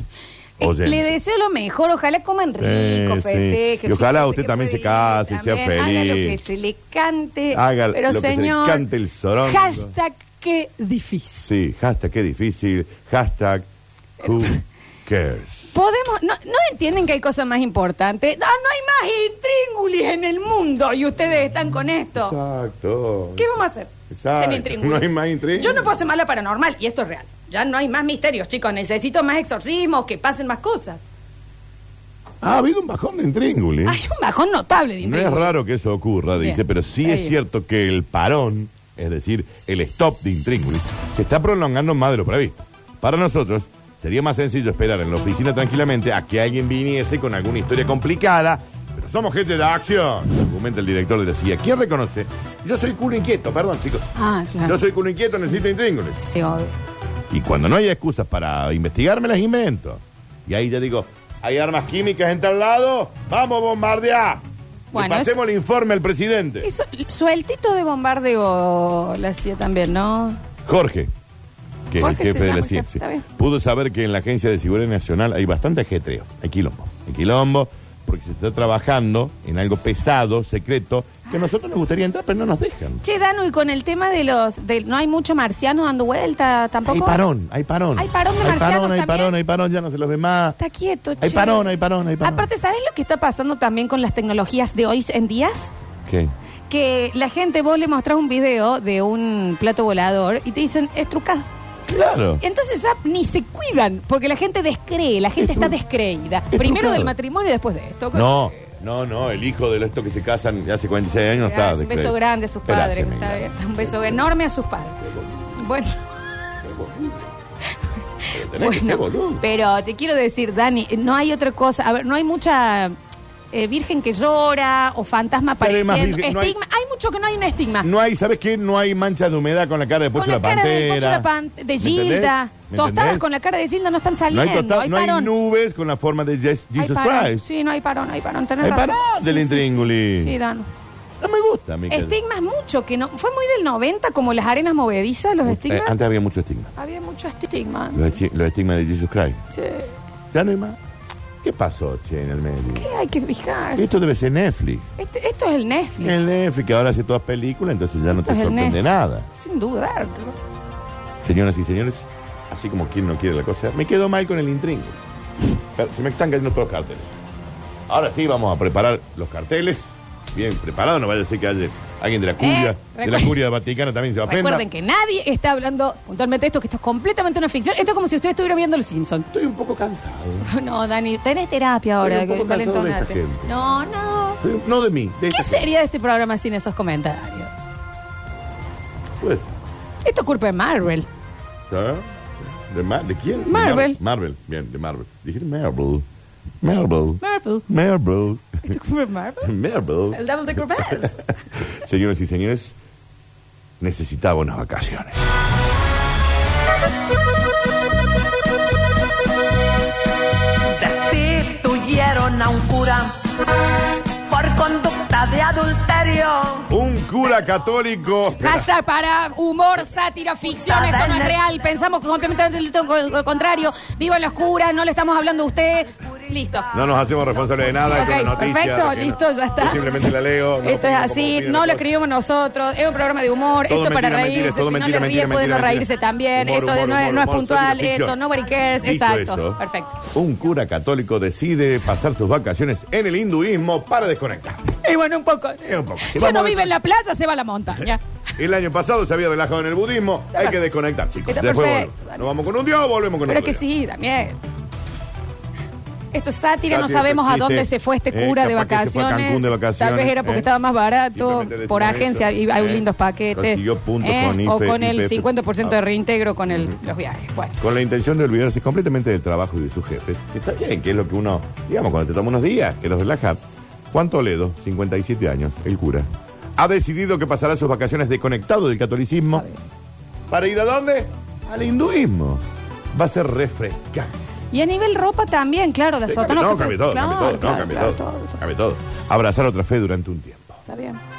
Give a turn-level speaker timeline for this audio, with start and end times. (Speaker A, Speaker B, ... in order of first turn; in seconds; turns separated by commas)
Speaker A: 0.6-8.8, Speaker B: 0.6-1.1, Speaker B: 2.6-6.4, Speaker B: 7.5-9.9, Speaker A: 9.4-11.5, Speaker B: 11.4-13.7, Speaker A: 14.2-14.6, Speaker B: 14.2-15.7, Speaker A: 15.7-22.4, Speaker B: 22.1-23.5, Speaker A: 23.4-31.1, Speaker B: 24.1-25.9, Speaker B: 32.4-34.0, Speaker A: 33.8-35.5, Speaker B: 35.0-54.1, Speaker A: 36.4-37.3, Speaker A: 54.1-54.8, Speaker B: 54.6-56.2, Speaker A: 56.2-56.7, Speaker B: 57.3-66.7, Speaker A: 64.9-65.4, Speaker A: 66.6-70.4, Speaker B: 70.7-71.1, Speaker B: 71.9-83.0, Speaker A: 72.0-73.2, Speaker A: 83.0-87.2, Speaker B: 86.8-90.6, Speaker A: 88.0-89.3, Speaker A: 90.6-95.7, Speaker B: 91.2-92.5, Speaker B: 96.0-96.3, Speaker A: 96.7-101.5, Speaker B: 101.9-102.4, Speaker A: 102.4-108.7, Speaker B: 105.4-105.8, Speaker B: 106.5-107.1, Speaker B: 108.1-112.1, Speaker A: 111.4-116.0, Speaker B: 112.7-114.3, Speaker B: 115.0-115.4, Speaker B: 116.6-117.3, Speaker B: 118.3-119.4, Speaker A: 118.5-122.9, Speaker A: 123.5-127.9, Speaker B: 125.6-126.5, Speaker B: 127.8-131.3, Speaker A: 130.1-135.3, Speaker B: 131.8-133.2, Speaker B: 134.3-137.4, Speaker A: 136.8-140.7, Speaker B: 138.6-140.3, Speaker B: 141.2-142.2, Speaker A: 141.9-145.9, Speaker B: 145.4-146.7, Speaker A: 146.8-148.2, Speaker B: 147.9-149.4, Speaker A: 149.5-149.9, Speaker B: 150.3-150.8, Speaker B: 151.4-152.9, Speaker A: 152.7-153.9, Speaker B: 153.7-154.9, Speaker A: 155.0-156.2, Speaker B: 156.0-159.3, Speaker A: 158.2-158.8, Speaker A: 159.3-160.4, Speaker B: 161.2-165.0, Speaker B: 165.7-167.1, Speaker B: 167.9-174.6, Speaker A: 172.4-173.3, Speaker A: 174.3-179.3, Speaker B: 179.3-180.5, Speaker A: 180.4-184.4, Speaker B: 182.0-183.5, Speaker B: 184.4-185.7, Speaker A: 185.3-187.6, Speaker B: 189.2-189.6, Speaker A: 190.0-191.1, Speaker B: 191.7-196.1, Speaker A: 193.5-194.0, Speaker B: 196.6-198.7, Speaker A: 197.2-197.7, Speaker A: 198.6-199.5, Speaker B: 199.4-202.8, Speaker A: 200.1-201.3, Speaker B: 203.8-205.2, Speaker C: 210.7-213.1, Speaker C: 214.2-216.7, Speaker B: 216.7-218.7, Speaker A: 218.3-226.7, Speaker C: 220.6-221.4, Speaker B: 226.7-231.9, Speaker A: 227.8-240.1, Speaker B: 233.7-238.2, Speaker B: 238.8-244.7, Speaker A: 244.8-248.0, Speaker B: 245.6-246.7, Speaker B: 248.3-253.6, Speaker A: 251.2-252.2, Speaker A: 253.2-254.4, Speaker A: 256.1-267.6, Speaker B: 256.7-260.5, Speaker B: 261.1-265.8, Speaker B: 267.6-279.4, Speaker B: 280.3-284.1, Speaker A: 284.5-288.4, Speaker B: 286.1-290.6, Speaker A: 290.7-291.0